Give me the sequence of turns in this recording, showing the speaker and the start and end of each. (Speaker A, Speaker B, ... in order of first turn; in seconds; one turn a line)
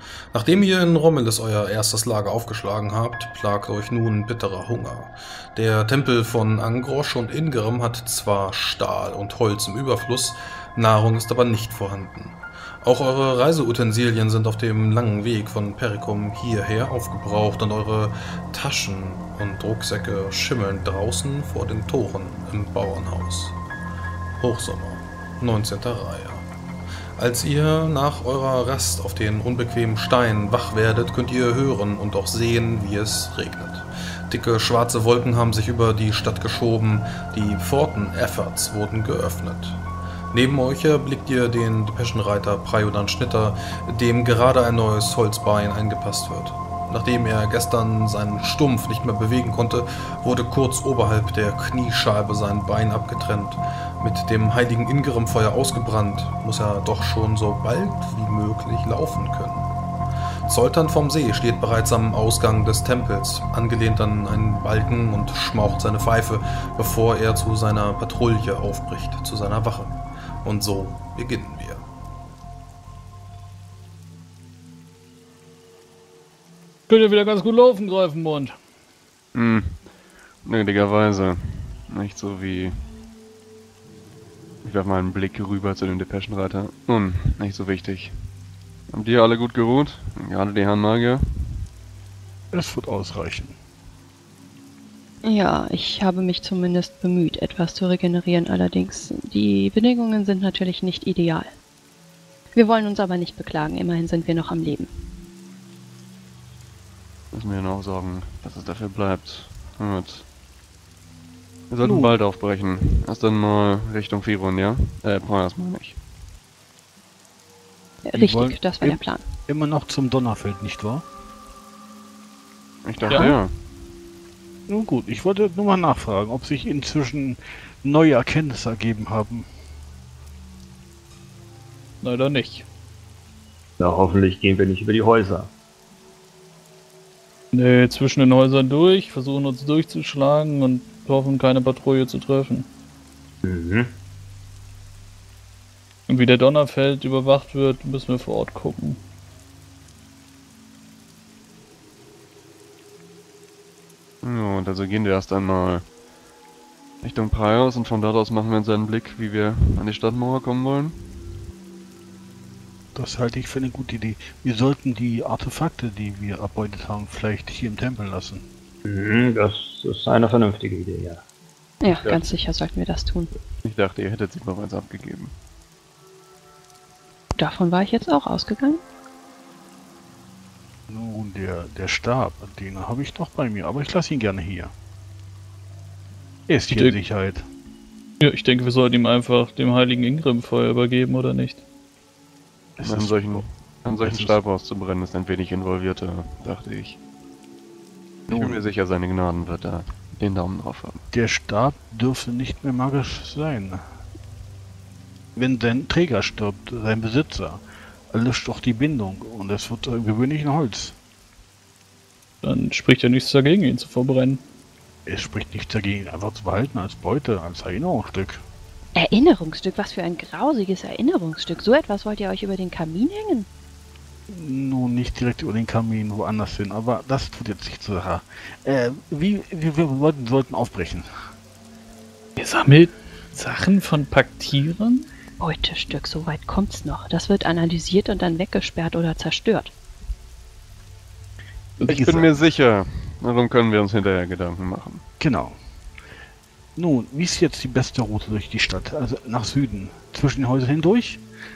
Speaker A: 0.3-23.6
Speaker A: 24.4-26.4
Speaker A: 27.2-39.8
Speaker A: 40.3-59.7
Speaker A: 60.5-71.8
Speaker B: 76.9-78.5
Speaker C: 79.3-79.8
Speaker C: 80.4-82.8
Speaker C: 84.6-88.2
Speaker C: 88.9-91.6
Speaker D: 92.5-93.5
Speaker E: 95.2-101.5
Speaker E: 102.5-104.9
Speaker C: 107.3-110.3
Speaker C: 111.7-116.0
Speaker D: 111.8-112.2
Speaker E: 118.0-119.3
Speaker D: 118.1-121.0
Speaker C: 122.8-123.6
Speaker B: 123.1-123.4
Speaker D: 124.7-129.5
Speaker B: 132.0-132.7
Speaker F: 133.8-135.5
Speaker B: 137.5-142.7
Speaker F: 143.4-143.9
Speaker B: 146.1-149.0
Speaker C: 154.2-155.8
Speaker C: 157.0-161.3
Speaker D: 162.9-168.4
Speaker F: 168.8-171.2
Speaker E: 171.8-173.3
Speaker F: 171.8-172.2
Speaker C: 173.6-175.3
Speaker E: 177.3-178.8
Speaker D: 180.9-184.7
Speaker D: 186.5-187.4
Speaker B: 186.7-187.0
Speaker B: 188.2-191.6
Speaker D: 192.8-194.4
Speaker C: 192.8-197.0
Speaker C: 198.3-201.0
Speaker D: 198.3-198.6
Speaker D: 201.1-203.8
Speaker D: 205.3-210.9
Speaker B: 212.4-214.4
Speaker D: 215.1-218.4
Speaker E: 218.9-223.5
Speaker D: 224.3-231.0
Speaker B: 232.4-235.1
Speaker E: 235.4-239.7
Speaker D: 241.8-242.3
Speaker C: 241.8-245.0
Speaker D: 245.2-245.6
Speaker D: 246.8-251.2